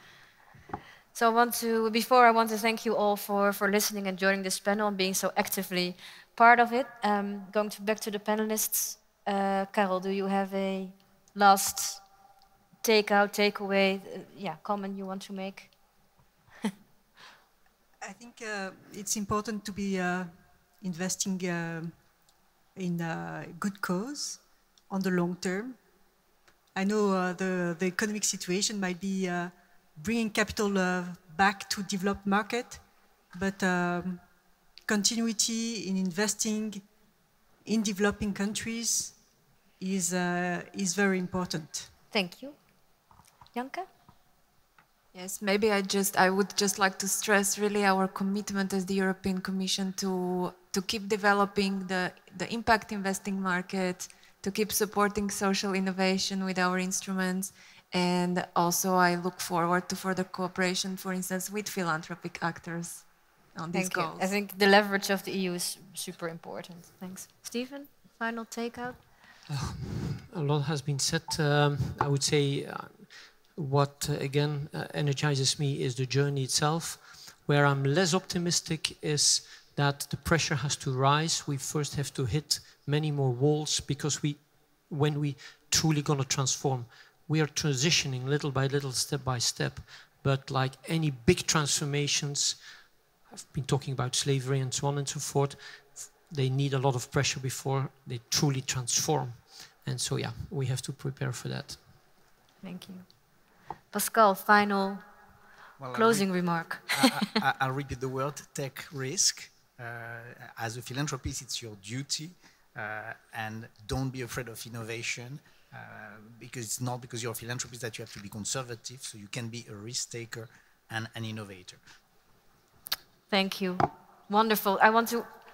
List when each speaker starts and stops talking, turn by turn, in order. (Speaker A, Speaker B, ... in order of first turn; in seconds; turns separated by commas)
Speaker A: 1.1-12.0, Speaker A: 12.8-15.7, Speaker B: 18.0-21.9, Speaker B: 22.8-25.8, Speaker B: 26.7-34.2, Speaker B: 34.9-36.8, Speaker B: 37.6-39.1, Speaker B: 39.8-41.9, Speaker A: 42.1-42.6, Speaker A: 43.5-43.9, Speaker C: 45.1-64.3, Speaker A: 63.7-69.0, Speaker D: 69.5-92.6, Speaker D: 93.4-101.8, Speaker A: 102.6-103.2, Speaker A: 103.9-105.0, Speaker E: 105.8-121.8, Speaker A: 105.9-107.3, Speaker A: 123.3-125.3